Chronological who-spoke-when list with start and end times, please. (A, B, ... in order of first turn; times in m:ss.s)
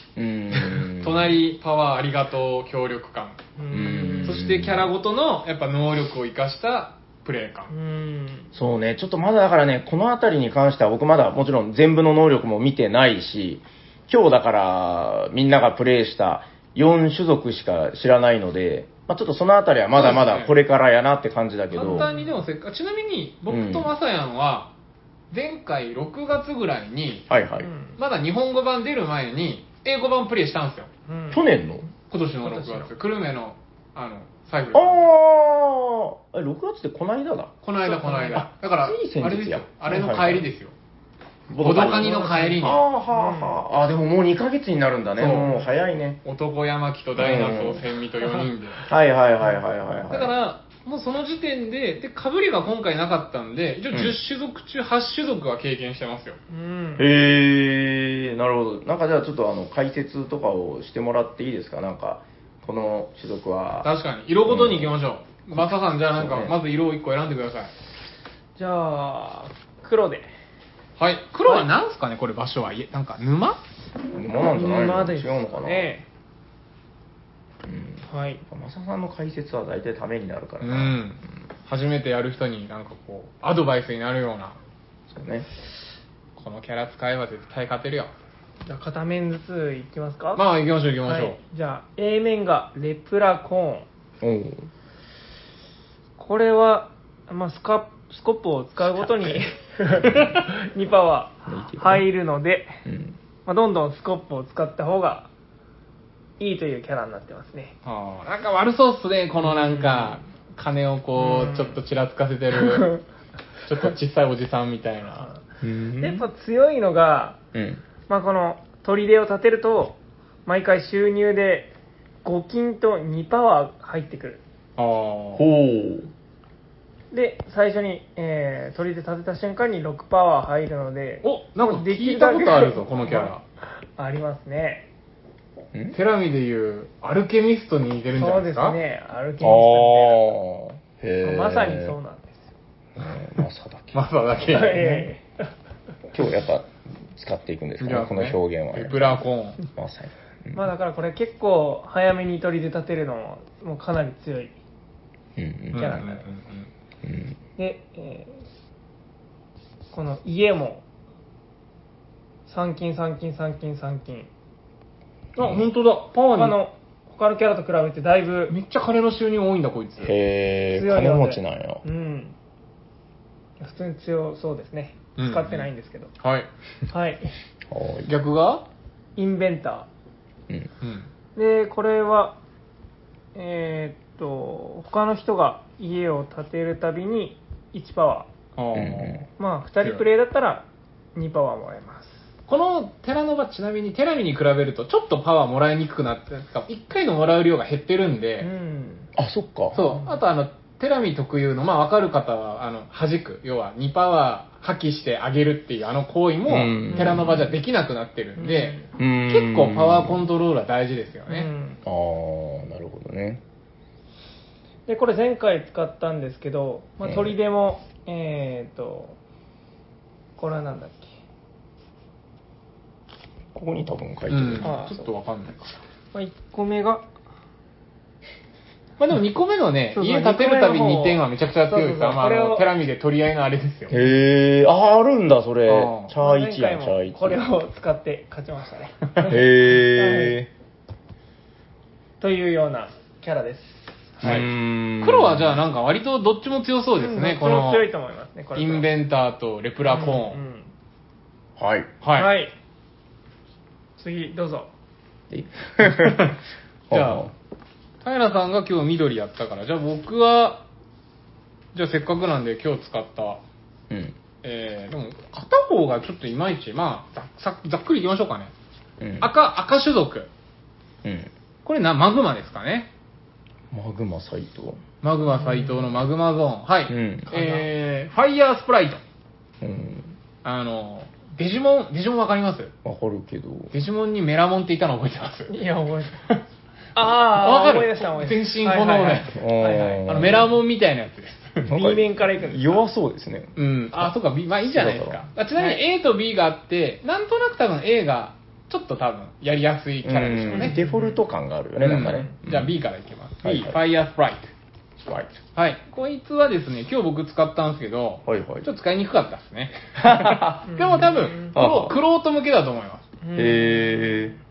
0:00.2-0:01.4 A
0:00.5-0:03.4 B
0:03.6-0:04.4 C
0:03.7-0:04.9 A
0:04.2-0:07.7 B
0:07.7-0:08.5 C
0:08.6-0:22.1 A
0:19.9-0:20.5 B
0:21.7-0:24.7 B
0:21.8-0:22.4 C
0:23.5-0:23.9 A
0:25.3-0:27.3 B
0:27.3-0:27.7 A
0:27.6-0:28.0 C
0:28.0-0:30.9 B
0:31.1-0:31.4 C
0:31.3-0:31.8 A
0:32.1-0:35.1 B
0:32.4-0:32.9 C
0:34.7-0:37.5 A
0:37.6-0:40.7 B
0:37.8-0:38.4 C
0:38.6-0:40.5 A
0:41.5-0:46.2 A
0:41.6-0:42.8 B
0:41.9-0:43.6 C
0:45.2-0:45.5 B
0:46.2-0:48.9 B
0:47.2-0:47.8 A
0:48.9-0:50.3 A
0:50.1-0:56.4 B
0:53.9-0:54.2 A
0:56.5-0:57.1 C
0:57.0-1:03.9 A
1:03.8-1:07.7 B
1:04.5-1:05.0 A
1:05.5-1:06.6 A
1:08.6-1:10.3 C
1:11.0-1:13.6 B
1:14.1-1:15.9 A
1:14.5-1:16.0 C
1:17.7-1:21.0 A
1:18.1-1:18.4 C
1:20.6-1:24.6 B
1:25.1-1:25.5 A
1:26.4-1:28.1 B
1:28.7-1:30.4 C
1:30.4-1:31.4 B
1:31.0-1:33.9 C
1:34.2-1:34.7 A
1:36.2-1:42.8 C
1:39.0-1:39.4 A
1:40.0-1:40.3 A
1:41.5-1:42.1 A
1:42.8-1:43.2 A
1:43.5-1:45.3 C
1:46.4-1:47.8 C
1:47.8-1:53.0 B
1:49.4-1:50.2 C
1:51.2-1:51.8 C
1:52.5-1:53.0 C
1:53.6-1:55.3 B
1:55.6-1:56.3 A
1:56.0-1:57.4 C
1:57.5-1:57.8 A
1:58.1-2:01.7 C
2:02.2-2:04.4 C
2:04.8-2:05.4 B
2:05.4-2:06.1 A
2:07.1-2:13.3 C
2:11.2-2:13.4 B
2:14.0-2:14.9 C
2:15.9-2:18.8 B
2:18.2-2:20.2 C
2:19.4-2:22.0 A
2:21.2-2:22.5 C
2:23.0-2:24.0 A
2:23.9-2:25.1 B
2:24.5-2:25.5 C
2:26.1-2:30.7 A
2:27.8-2:29.6 B
2:30.5-2:34.5 C
2:35.4-2:36.0 A
2:35.7-2:36.7 B
2:35.8-2:36.2 C
2:37.0-2:37.4 A
2:37.6-2:38.4 C
2:39.9-2:40.8 C
2:42.5-2:44.3 C
2:45.4-2:46.6 B
2:45.4-2:45.7 A
2:46.3-2:48.6 C
2:48.5-2:50.1 B
2:50.0-2:51.8 A
2:50.7-2:52.4 C
2:53.6-2:56.1 C
2:55.2-2:55.7 B
2:56.2-2:56.5 B
2:56.9-2:57.3 C
2:57.7-2:58.1 A
2:58.1-2:58.6 B
2:59.2-2:59.9 C
3:00.8-3:01.1 B
3:01.4-3:02.4 C
3:03.4-3:08.3 C
3:08.6-3:09.3 B
3:08.8-3:09.2 A
3:09.4-3:12.3 C
3:12.5-3:18.5 B
3:18.4-3:19.1 C
3:19.2-3:19.8 A
3:19.7-3:31.5 B
3:19.8-3:20.2 C
3:26.5-3:27.4 A
3:26.9-3:27.2 C
3:28.4-3:28.9 C
3:29.0-3:30.2 A
3:31.3-3:31.8 C
3:31.8-3:33.4 A
3:34.9-3:39.2 C
3:37.0-3:37.4 A
3:40.4-3:41.2 C
3:43.6-3:44.8 A
3:44.3-3:45.8 B
3:44.6-3:45.0 C
3:46.1-3:47.1 C
3:49.0-3:54.0 B
3:49.9-3:52.7 C
3:53.9-3:57.4 A
3:55.7-3:56.1 B
3:56.2-4:00.4 C
3:59.3-4:00.5 A
4:02.2-4:03.9 C
4:04.2-4:04.5 B
4:04.2-4:05.6 A
4:05.0-4:07.9 B
4:07.0-4:08.9 C
4:08.6-4:10.4 B
4:09.8-4:10.7 C
4:11.6-4:11.9 A
4:12.0-4:12.3 B
4:12.2-4:12.5 C
4:14.0-4:14.7 C
4:15.3-4:16.4 A
4:15.8-4:16.4 B
4:16.9-4:17.3 B
4:16.9-4:17.3 A
4:18.0-4:20.6 B
4:21.7-4:23.4 B
4:23.9-4:24.2 A
4:24.4-4:28.5 B
4:29.0-4:29.3 A
4:29.2-4:30.3 B
4:31.0-4:31.3 A
4:31.6-4:32.9 B
4:33.7-4:34.8 A
4:35.0-4:39.0 B
4:35.3-4:35.9 C
4:36.9-4:37.3 A
4:37.4-4:37.7 C
4:39.6-4:40.2 A
4:40.4-4:42.7 B
4:42.8-4:43.7 A
4:43.7-4:45.5 B
4:45.5-4:46.2 C
4:47.0-4:49.3 C
4:47.2-4:51.7 B
4:49.3-4:50.6 A
4:51.6-4:53.6 A
4:51.7-4:52.8 C
4:53.6-5:00.8 B
4:54.7-4:55.2 A
5:00.0-5:02.7 A
5:00.5-5:01.2 C
5:01.8-5:04.5 B
5:02.0-5:02.3 C
5:03.4-5:03.8 A
5:05.0-5:05.4 A
5:05.6-5:13.0 B
5:08.2-5:08.7 A
5:10.0-5:10.7 A
5:10.7-5:11.6 C
5:11.5-5:12.0 A
5:13.2-5:14.4 C
5:13.4-5:14.4 A